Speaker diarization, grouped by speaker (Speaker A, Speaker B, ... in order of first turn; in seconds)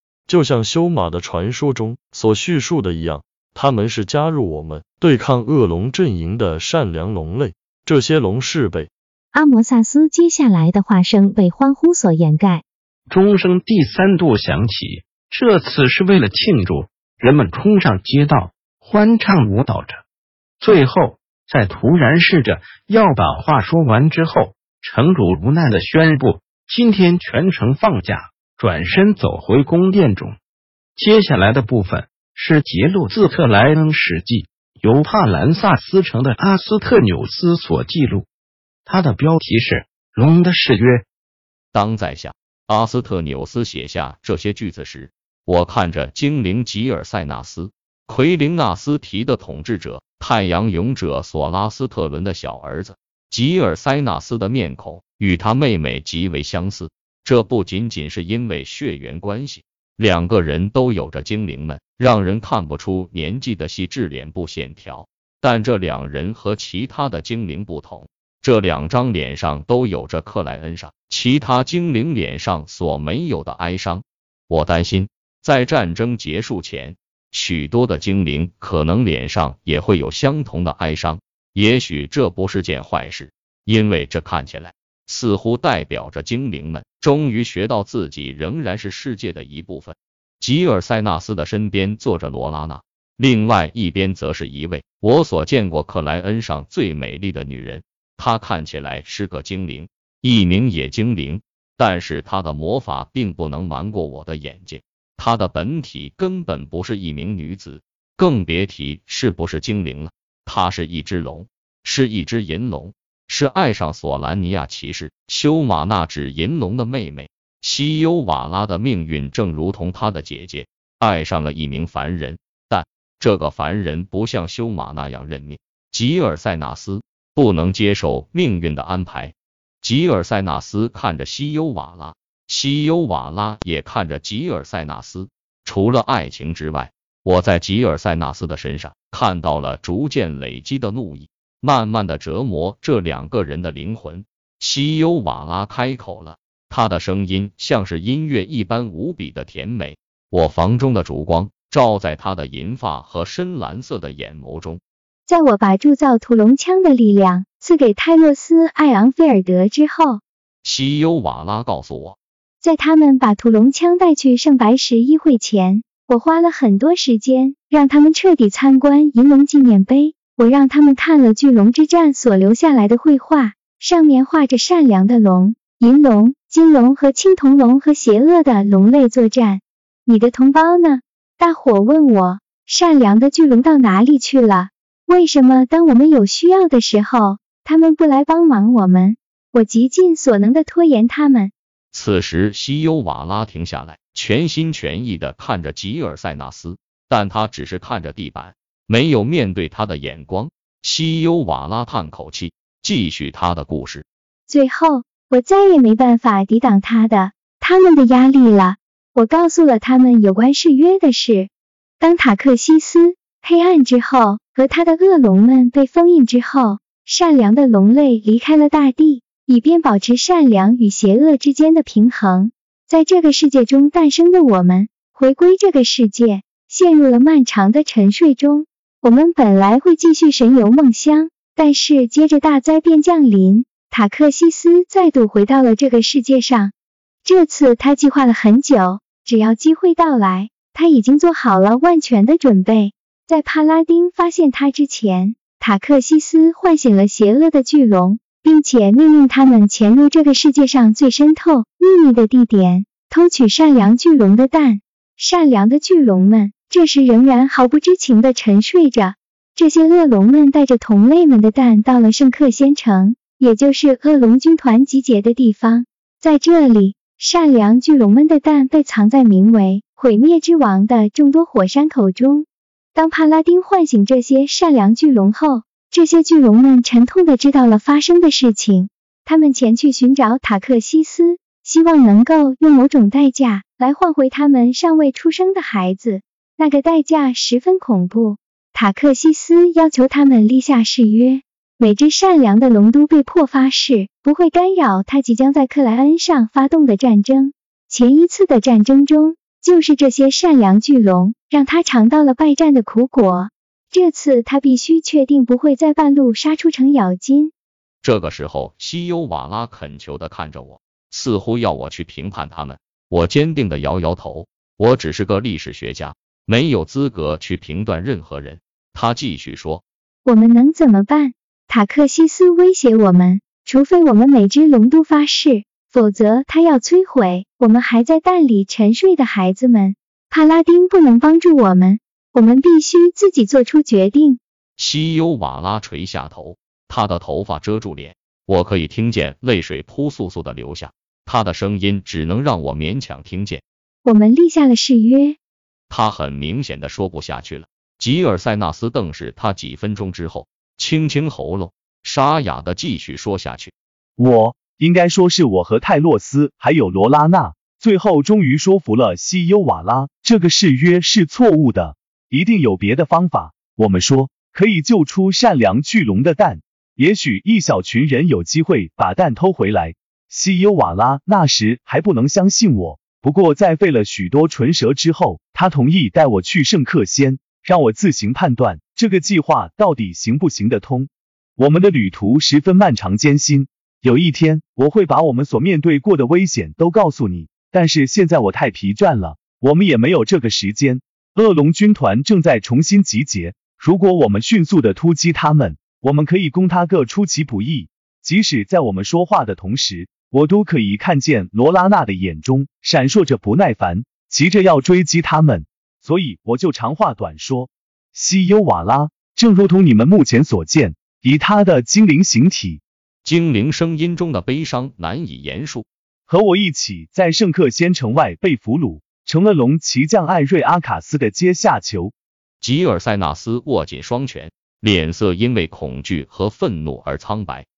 Speaker A: 0.3-8.9
Speaker B: 9.3-12.6
Speaker C: 13.1-20.0, 20.6-30.4, 30.9-38.3, 38.9-41.0
Speaker D: 41.7-154.8, 160.6-162.2, 191.9-204.0, 308.0-319.8, 334.8-343.6, 345.9-353.7, 413.2-415.9, 422.6-427.6
Speaker E: 155.2-160.2, 162.6-191.5, 204.5-236.7, 237.2-307.5, 320.2-334.4, 344.0-345.4
Speaker F: 354.2-412.8, 416.3-422.1